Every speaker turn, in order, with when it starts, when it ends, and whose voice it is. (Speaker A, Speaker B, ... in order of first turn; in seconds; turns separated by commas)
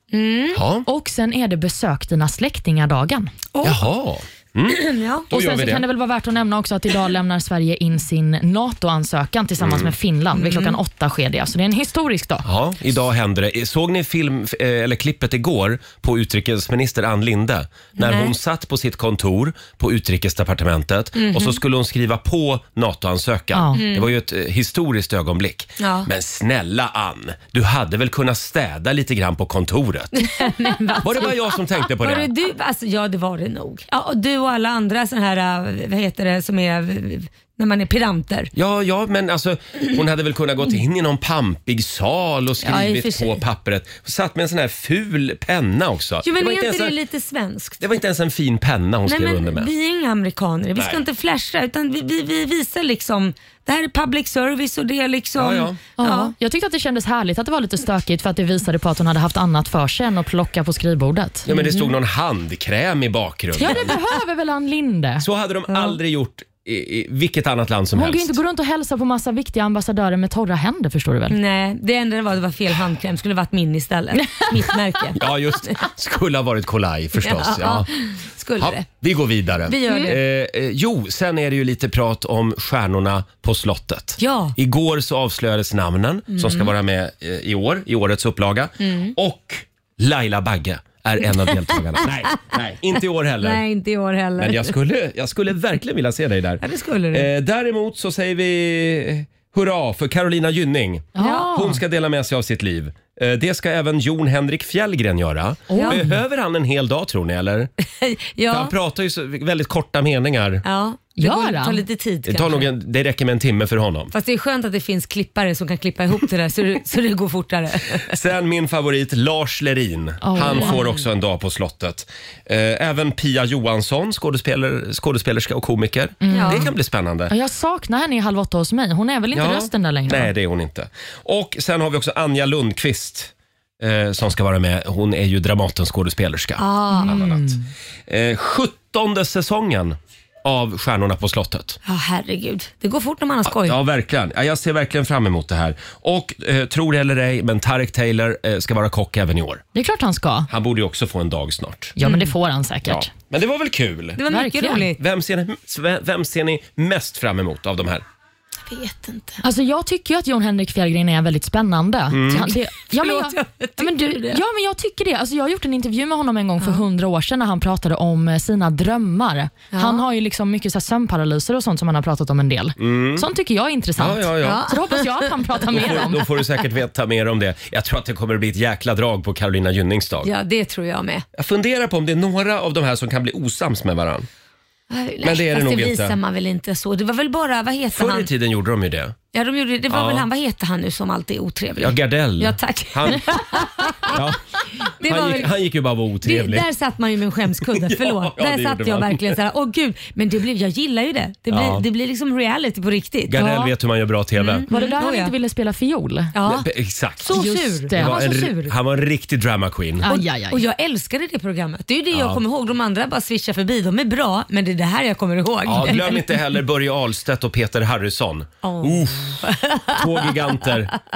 Speaker A: 0.1-0.6, Speaker B: 0.5-0.9, Speaker C: 0.9-3.3, Speaker A: 3.5-3.8, Speaker B: 3.6-5.8, Speaker A: 4.7-5.3, Speaker C: 5.3-12.5, Speaker B: 9.6-9.9, Speaker A: 10.3-10.8, Speaker B: 12.4-30.2, Speaker A: 18.0-18.3, Speaker A: 21.2-21.6, Speaker C: 23.5-23.8, Speaker A: 23.7-24.1, Speaker A: 25.8-26.1, Speaker A: 30.2-38.5, Speaker B: 31.0-32.3, Speaker B: 38.5-47.0, Speaker A: 42.6-43.4, Speaker A: 46.2-47.9, Speaker B: 47.8-49.7, Speaker A: 49.1-56.3, Speaker B: 50.8-51.0, Speaker B: 55.4-55.8, Speaker C: 56.0-61.5, Speaker B: 61.5-64.0, Speaker A: 61.5-61.9, Speaker C: 63.6-65.3, Speaker B: 65.2-68.4, Speaker A: 65.7-66.0, Speaker C: 68.0-71.4, Speaker A: 71.3-75.8, Speaker B: 75.2-77.9, Speaker A: 77.2-78.9, Speaker B: 78.6-93.6, Speaker A: 79.7-80.2, Speaker C: 79.9-80.1, Speaker A: 84.2-84.5, Speaker A: 86.3-86.7, Speaker A: 88.8-89.2, Speaker A: 92.0-92.3, Speaker A: 93.4-94.8, Speaker B: 94.4-107.7, Speaker A: 96.6-97.3, Speaker C: 101.2-101.8, Speaker A: 101.2-101.5, Speaker C: 105.7-106.2, Speaker A: 108.0-108.7, Speaker B: 108.5-110.6, Speaker A: 110.7-112.7, Speaker C: 111.2-111.8, Speaker B: 112.3-114.1, Speaker A: 114.1-118.1, Speaker B: 118.1-127.3, Speaker C: 120.2-120.8, Speaker A: 120.5-121.0, Speaker C: 126.2-126.7, Speaker A: 126.3-126.7, Speaker C: 127.3-130.3, Speaker B: 129.3-137.6, Speaker A: 136.6-137.2, Speaker C: 136.9-137.6, Speaker B: 138.1-141.8, Speaker A: 141.8-143.8, Speaker B: 143.4-149.6, Speaker C: 149.7-150.5, Speaker B: 150.5-151.9, Speaker C: 152.0-153.1, Speaker A: 152.0-152.3, Speaker B: 152.9-154.2, Speaker A: 154.2-155.0, Speaker C: 154.3-154.9, Speaker B: 155.0-158.0, Speaker A: 158.7-159.4, Speaker C: 159.4-176.2, Speaker B: 162.1-162.5, Speaker A: 162.3-164.4, Speaker A: 169.7-170.0, Speaker B: 172.8-173.3, Speaker B: 174.0-174.7, Speaker A: 174.4-176.1, Speaker B: 175.7-180.3, Speaker A: 180.2-181.2, Speaker B: 181.4-184.3, Speaker A: 184.9-188.3, Speaker B: 185.2-186.2, Speaker B: 187.9-189.2, Speaker A: 189.3-194.2, Speaker B: 189.9-190.3, Speaker B: 191.8-193.3, Speaker B: 194.1-194.4, Speaker A: 195.0-195.6, Speaker B: 195.0-196.7, Speaker A: 196.2-203.4, Speaker B: 197.8-199.4, Speaker B: 201.5-201.8, Speaker B: 203.3-204.7, Speaker C: 203.4-203.7, Speaker A: 204.4-205.3, Speaker C: 204.7-206.3, Speaker A: 206.3-206.7, Speaker B: 206.4-207.4, Speaker A: 207.2-208.7, Speaker C: 207.3-208.2, Speaker B: 207.9-210.1, Speaker C: 210.0-210.6, Speaker A: 210.1-216.4, Speaker B: 212.1-212.4, Speaker B: 215.7-220.9, Speaker A: 218.6-220.4